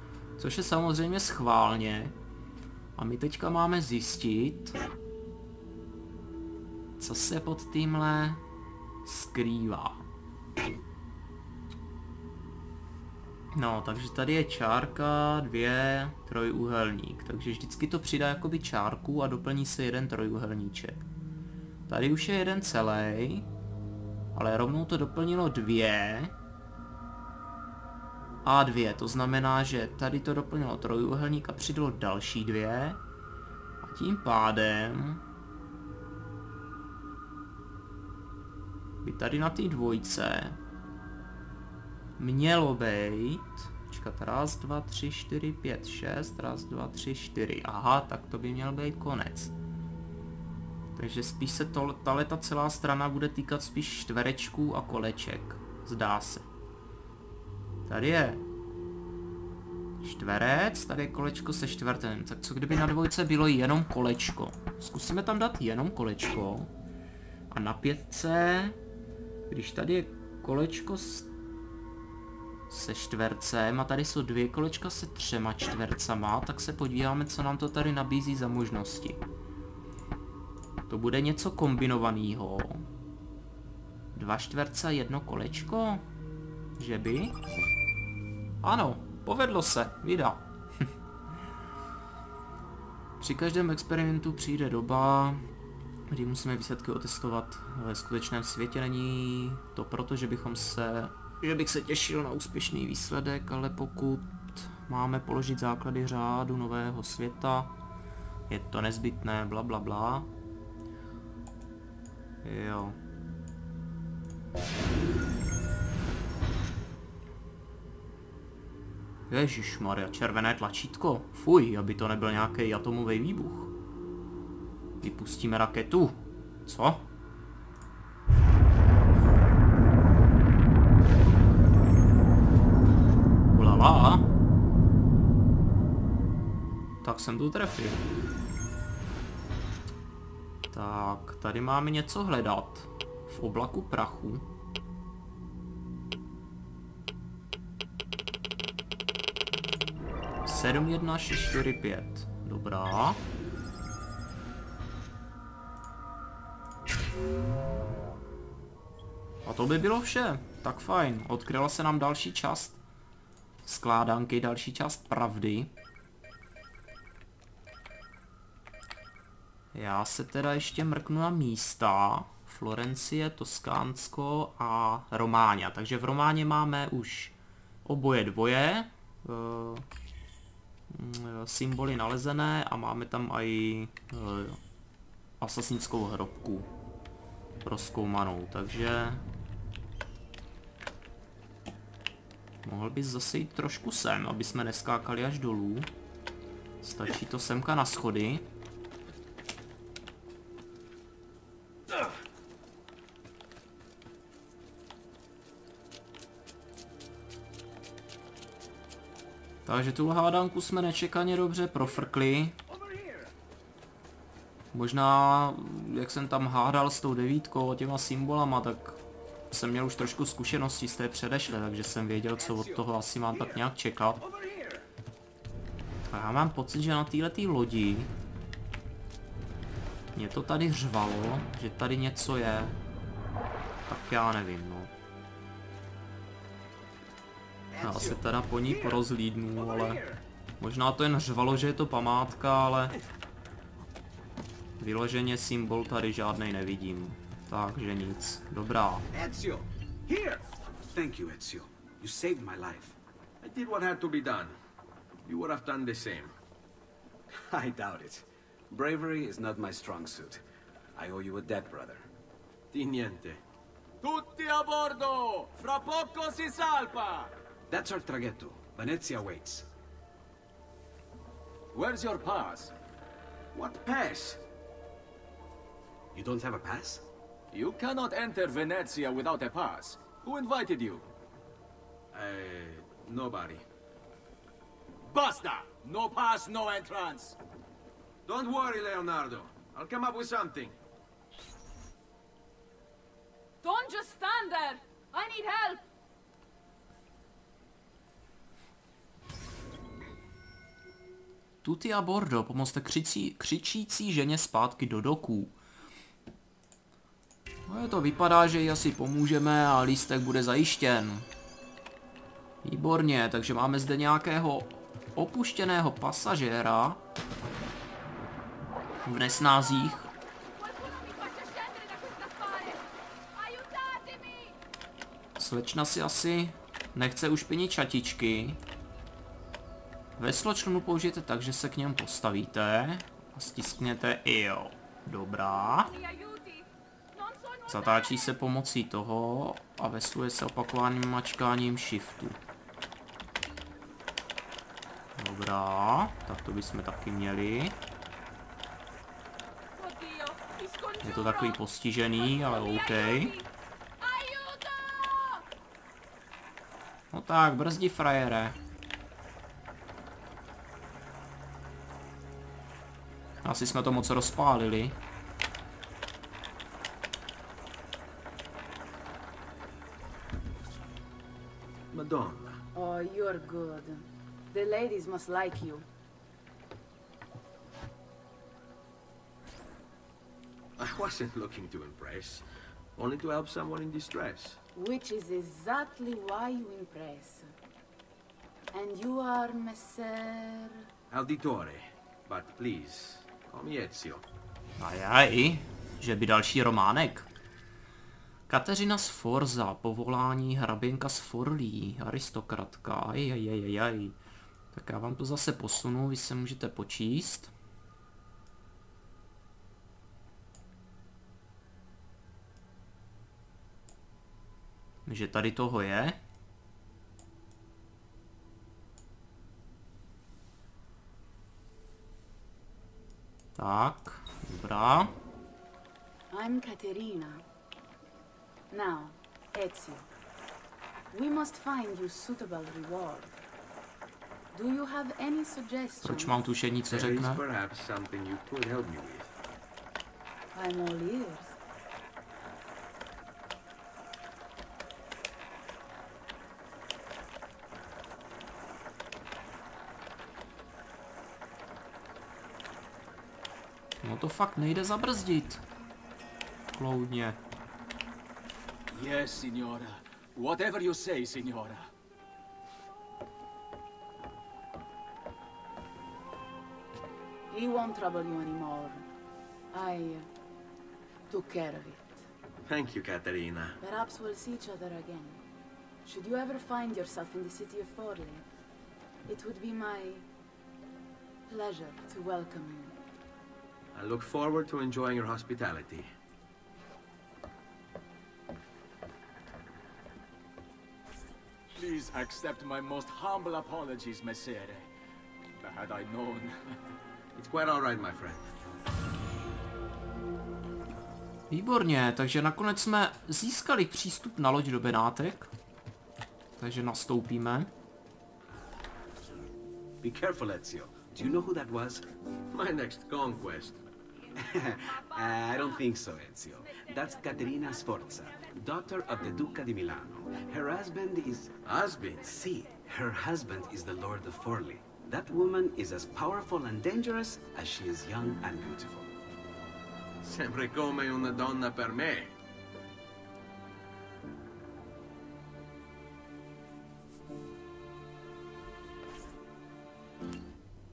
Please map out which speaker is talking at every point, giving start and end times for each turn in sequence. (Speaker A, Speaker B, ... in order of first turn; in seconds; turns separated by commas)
Speaker A: 0.4-2.1, Speaker A: 3.0-4.8, Speaker A: 7.0-8.4, Speaker A: 9.0-10.0, Speaker A: 13.5-21.0, Speaker A: 21.9-23.5, Speaker A: 24.4-26.4, Speaker A: 28.4-33.0, Speaker A: 33.8-35.2, Speaker A: 39.0-40.6, Speaker A: 42.2-49.5, Speaker A: 51.0-56.5, Speaker A: 57.9-58.4, Speaker A: 60.0-66.7, Speaker A: 67.5-68.8, Speaker A: 69.5-71.3, Speaker A: 72.7-79.2, Speaker A: 80.9-82.8, Speaker A: 84.2-86.0, Speaker A: 86.8-87.3, Speaker A: 88.6-90.8, Speaker A: 93.2-95.4, Speaker A: 96.1-107.7, Speaker A: 108.5-110.3, Speaker A: 112.4-113.0, Speaker A: 119.3-123.7, Speaker A: 125.0-127.1, Speaker A: 133.5-134.3, Speaker A: 137.0-138.0, Speaker A: 140.7-144.4, Speaker A: 150.4-153.2, Speaker A: 159.4-162.8, Speaker A: 163.7-165.7, Speaker A: 169.7-179.8, Speaker A: 180.9-184.6, Speaker A: 185.4-186.7, Speaker A: 187.6-189.2, Speaker A: 192.6-195.9, Speaker A: 196.8-198.5, Speaker A: 209.7-212.6, Speaker A: 214.7-219.0, Speaker A: 219.5-224.2, Speaker B: 224.3-224.7, Speaker A: 226.1-228.1, Speaker A: 230.2-232.8, Speaker A: 233.9-234.9, Speaker B: 237.7-238.2, Speaker A: 237.8-240.0, Speaker A: 240.6-242.9, Speaker A: 244.8-249.1, Speaker B: 249.1-249.7, Speaker B: 250.9-253.0, Speaker C: 253.4-254.6, Speaker C: 255.2-256.3, Speaker B: 257.3-260.4, Speaker B: 261.0-262.1, Speaker C: 262.7-263.4, Speaker D: 264.0-267.3, Speaker B: 267.7-269.7, Speaker D: 271.7-272.7, Speaker C: 273.5-274.4, Speaker B: 276.1-277.1, Speaker D: 277.5-281.1, Speaker C: 282.1-283.6, Speaker D: 285.1-287.4, Speaker C: 288.3-290.8, Speaker E: 293.6-295.8, Speaker A: 301.6-305.6, Speaker A: 307.7-311.3, Speaker A: 312.6-317.0, Speaker A: 319.0-320.1, Speaker E: 320.6-324.6, Speaker A: 325.4-328.6, Speaker A: 330.2-335.9, Speaker E: 335.9-338.3, Speaker A: 337.7-342.4, Speaker A: 345.2-347.8, Speaker E: 349.8-353.5, Speaker A: 351.0-353.3, Speaker E: 354.0-355.4, Speaker A: 357.1-358.6, Speaker A: 363.4-365.0, Speaker C: 371.9-372.6, Speaker F: 372.8-375.9, Speaker C: 380.8-382.4, Speaker C: 383.0-384.6, Speaker F: 384.8-387.5, Speaker F: 388.7-390.9, Speaker C: 391.1-394.2, Speaker A: 394.8-397.3, Speaker A: 398.5-404.2, Speaker A: 404.7-407.5, Speaker A: 415.1-416.2, Speaker A: 423.6-425.1, Speaker F: 426.3-427.4, Speaker F: 428.7-430.1, Speaker F: 431.1-433.4, Speaker F: 434.5-436.5, Speaker A: 436.0-437.4, Speaker C: 436.9-439.3, Speaker F: 440.6-441.6, Speaker A: 454.0-455.6, Speaker A: 456.8-457.4, Speaker D: 458.9-461.9, Speaker F: 467.5-469.1, Speaker F: 469.7-470.3, Speaker F: 471.3-472.2, Speaker C: 472.7-473.8, Speaker F: 473.8-475.4, Speaker F: 476.1-478.4, Speaker F: 479.3-480.3, Speaker F: 481.5-483.0, Speaker C: 483.9-486.1, Speaker D: 491.7-494.9, Speaker D: 495.6-496.7, Speaker C: 497.4-498.4, Speaker A: 501.5-505.5, Speaker A: 506.6-507.7, Speaker B: 510.0-512.1, Speaker C: 512.5-513.8, Speaker B: 514.4-521.5, Speaker C: 521.6-522.3, Speaker B: 522.3-529.1, Speaker C: 530.2-532.3